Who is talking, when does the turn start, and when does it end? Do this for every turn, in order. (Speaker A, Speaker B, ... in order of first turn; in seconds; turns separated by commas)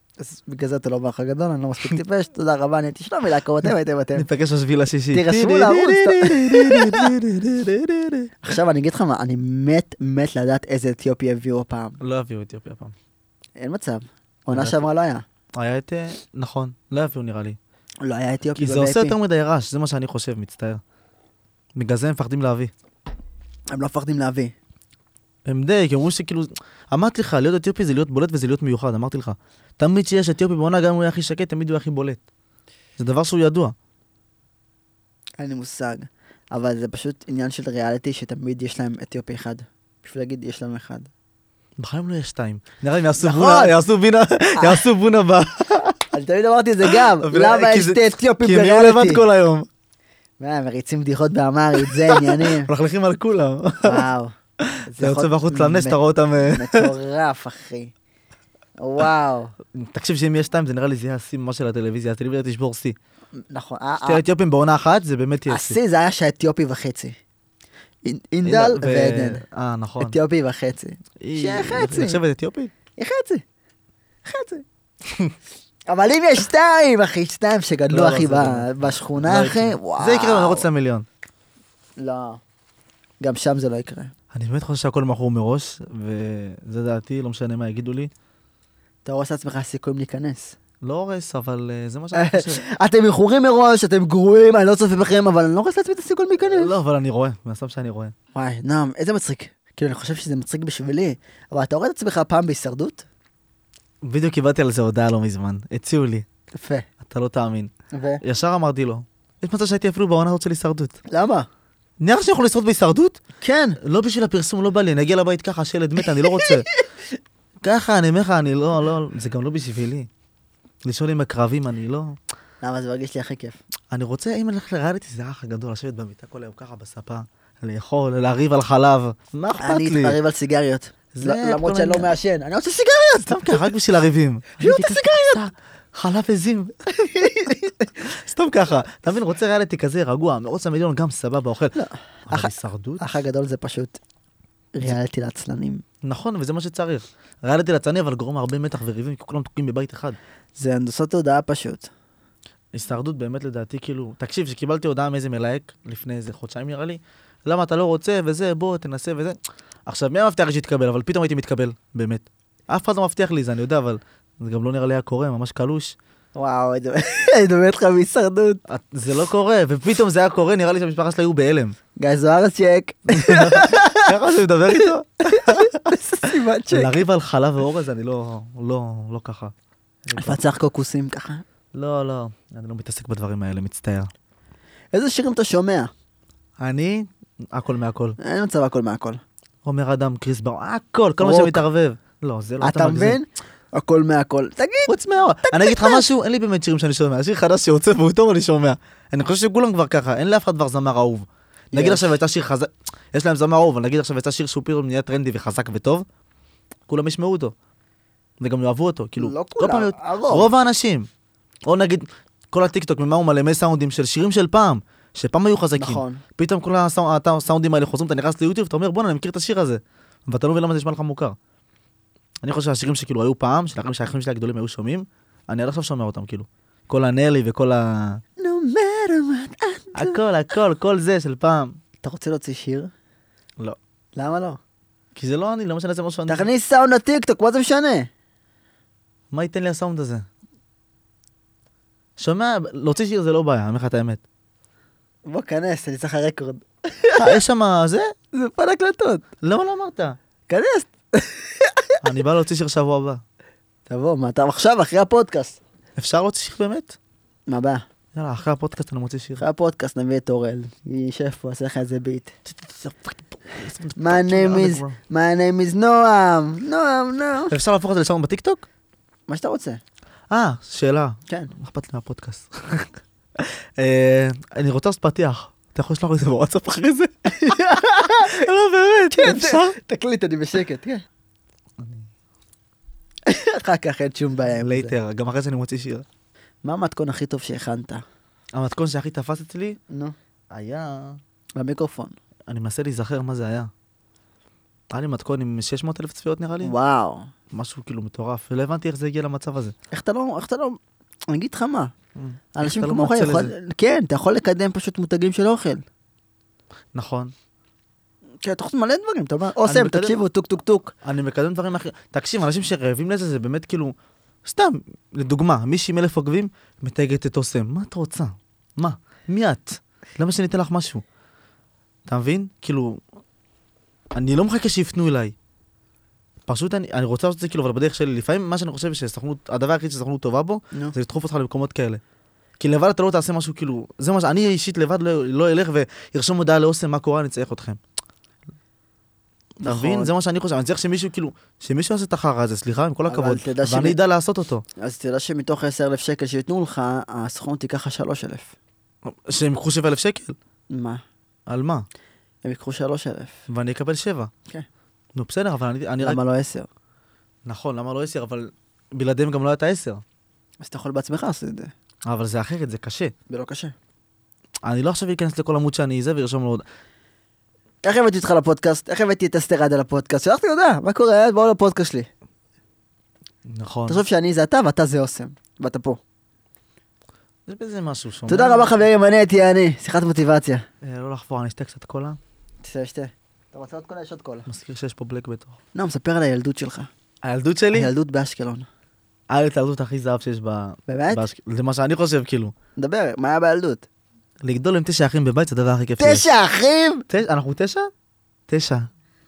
Speaker A: 0.2-4.3, Speaker B: 4.2-8.4, Speaker A: 5.1-7.1, Speaker A: 8.4-12.0, Speaker B: 12.0-12.9, Speaker A: 13.6-15.2, Speaker B: 14.5-14.8, Speaker B: 15.5-17.6, Speaker A: 18.0-19.2, Speaker B: 18.6-20.8, Speaker B: 21.7-22.7, Speaker A: 23.7-24.6, Speaker B: 25.4-32.2, Speaker B: 33.0-33.7, Speaker A: 35.4-41.1, Speaker B: 41.8-46.0, Speaker A: 43.2-43.7, Speaker A: 44.6-44.9, Speaker A: 46.1-49.2, Speaker B: 46.9-49.7, Speaker A: 50.4-52.7, Speaker B: 51.9-54.0, Speaker A: 53.8-57.9, Speaker B: 54.6-56.9, Speaker A: 58.8-59.5, Speaker B: 59.7-63.0, Speaker A: 63.4-64.2, Speaker B: 64.0-65.8, Speaker A: 65.5-67.2, Speaker A: 68.0-69.4, Speaker B: 68.4-70.2, Speaker A: 70.0-72.2, Speaker B: 71.2-72.7, Speaker A: 73.0-73.4, Speaker A: 74.2-74.6, Speaker A: 75.9-80.7, Speaker B: 77.9-81.1, Speaker A: 82.0-82.4, Speaker A: 83.2-84.1, Speaker B: 84.3-88.1, Speaker A: 89.0-90.6, Speaker B: 90.8-92.6, Speaker A: 92.1-96.7, Speaker B: 96.4-98.1, Speaker A: 98.3-103.1, Speaker B: 104.0-106.2, Speaker A: 106.5-106.9, Speaker B: 107.0-111.0, Speaker A: 107.9-108.2, Speaker A: 111.1-111.5, Speaker B: 112.0-113.2, Speaker A: 113.4-113.8, Speaker B: 113.8-116.7, Speaker A: 116.2-116.8, Speaker B: 117.6-120.1, Speaker B: 120.8-122.2, Speaker A: 122.6-123.6, Speaker B: 123.9-130.2, Speaker A: 129.6-133.7, Speaker B: 131.1-132.1, Speaker B: 133.3-136.7, Speaker A: 134.6-135.4, Speaker A: 136.9-137.9, Speaker B: 138.0-141.8, Speaker A: 141.8-144.0, Speaker B: 142.3-143.1, Speaker A: 144.7-145.8, Speaker B: 146.0-150.2, Speaker A: 150.6-151.9, Speaker B: 152.7-165.9, Speaker A: 166.3-168.6, Speaker B: 168.7-171.8, Speaker A: 172.0-174.1, Speaker B: 173.1-175.9, Speaker A: 174.7-177.0, Speaker B: 176.7-179.5, Speaker B: 180.1-180.4, Speaker A: 180.2-181.4, Speaker B: 181.7-184.1, Speaker A: 184.9-185.9, Speaker B: 186.6-188.2, Speaker A: 188.2-189.2, Speaker B: 189.6-193.2, Speaker A: 191.2-191.6, Speaker A: 192.6-196.1, Speaker B: 194.9-206.1, Speaker A: 201.7-202.2, Speaker B: 206.9-207.5, Speaker B: 208.4-211.1, Speaker A: 209.2-210.5, Speaker B: 211.7-221.4, Speaker A: 215.8-216.2, Speaker B: 222.4-228.2, Speaker A: 228.4-230.2, Speaker B: 229.9-231.8, Speaker A: 232.0-232.9, Speaker A: 234.2-234.6, Speaker B: 235.1-236.5, Speaker A: 236.3-238.1, Speaker B: 239.3-240.2, Speaker B: 242.2-244.2, Speaker A: 245.2-247.4, Speaker B: 247.2-248.1, Speaker A: 248.3-249.2, Speaker B: 249.4-250.2, Speaker A: 250.5-252.0, Speaker B: 252.0-253.2, Speaker A: 253.9-255.6, Speaker B: 255.9-256.9, Speaker A: 257.5-257.9, Speaker B: 258.1-259.4, Speaker A: 259.4-262.3, Speaker B: 262.5-265.0, Speaker A: 264.0-267.5, Speaker B: 267.5-268.6, Speaker A: 269.3-269.8, Speaker B: 270.3-279.7, Speaker A: 277.3-278.4, Speaker A: 279.1-281.0, Speaker B: 281.8-282.1, Speaker A: 283.3-284.9, Speaker B: 284.5-286.1, Speaker A: 286.6-288.0, Speaker B: 288.5-289.8, Speaker A: 289.9-290.1, Speaker B: 290.5-291.2, Speaker A: 291.6-292.1, Speaker B: 292.5-293.7, Speaker B: 294.9-296.7, Speaker A: 296.6-297.3, Speaker B: 297.5-299.7, Speaker A: 299.9-301.9, Speaker B: 302.1-303.5, Speaker A: 302.6-305.8, Speaker B: 306.9-307.3, Speaker A: 308.4-310.9, Speaker B: 309.6-310.2, Speaker B: 311.0-321.0, Speaker B: 322.1-323.0, Speaker B: 324.1-325.4, Speaker B: 326.5-332.0, Speaker B: 332.6-337.8, Speaker B: 339.6-344.6, Speaker A: 339.6-340.1, Speaker A: 343.1-344.0, Speaker A: 344.8-348.5, Speaker B: 349.1-350.4, Speaker A: 350.7-351.0, Speaker B: 351.5-351.9, Speaker A: 352.4-353.4, Speaker B: 353.5-354.3, Speaker B: 355.1-356.2, Speaker A: 356.0-356.7, Speaker B: 357.4-360.0, Speaker A: 360.6-361.7, Speaker B: 362.1-363.1, Speaker A: 363.3-363.7, Speaker B: 364.6-366.6, Speaker A: 367.8-372.1, Speaker B: 373.4-374.0, Speaker A: 373.9-376.0, Speaker B: 377.4-378.8, Speaker A: 378.3-380.6, Speaker B: 380.8-382.2, Speaker A: 382.6-384.5, Speaker B: 384.5-385.6, Speaker A: 385.7-386.9, Speaker B: 387.2-387.9, Speaker A: 387.7-388.6, Speaker B: 389.3-392.5, Speaker A: 390.9-391.2, Speaker A: 392.8-393.9, Speaker B: 394.4-396.3, Speaker A: 396.0-397.1, Speaker B: 397.1-397.9, Speaker B: 398.5-398.9